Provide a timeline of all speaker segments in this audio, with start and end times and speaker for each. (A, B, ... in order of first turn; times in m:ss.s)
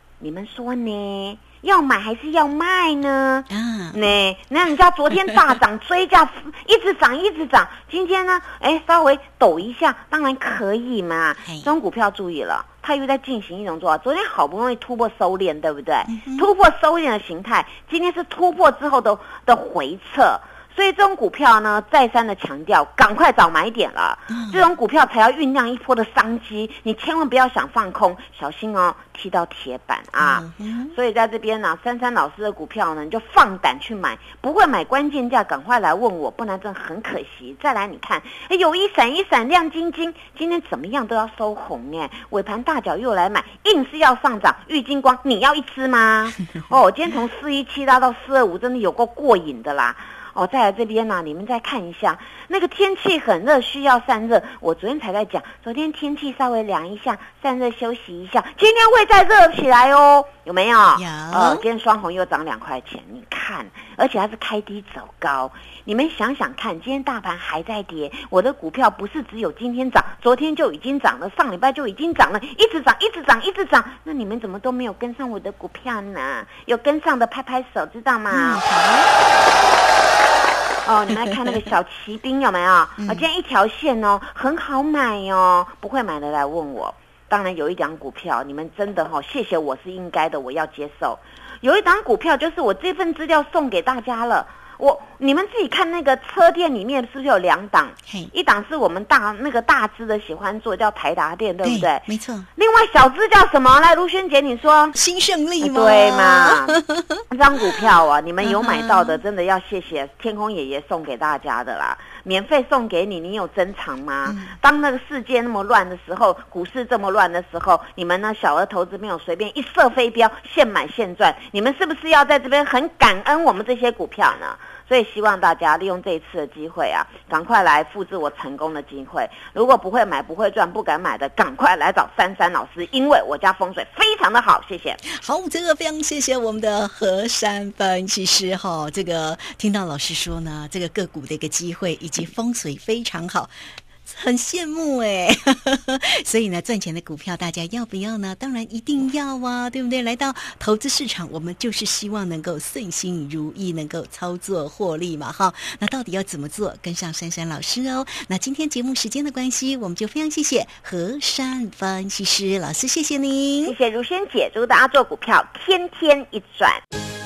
0:00.2-1:18.6 A
0:03.5-0:04.0 B
0:11.4-0:11.7 B
0:16.1-0:16.5 B
0:24.3-0:24.6 B
0:30.2-0:30.9 B
1:01.0-1:01.6 B
1:18.3-1:19.1 B
1:20.8-1:45.0 A
1:23.0-1:23.2 B
1:41.6-1:42.5 B
1:44.9-1:47.2 B
1:45.6-1:46.8 A
1:47.3-2:15.0 A
1:48.4-1:49.2 B
1:54.2-1:54.5 B
2:15.1-2:23.5 B
2:24.0-2:43.8 B
2:43.6-2:46.8 A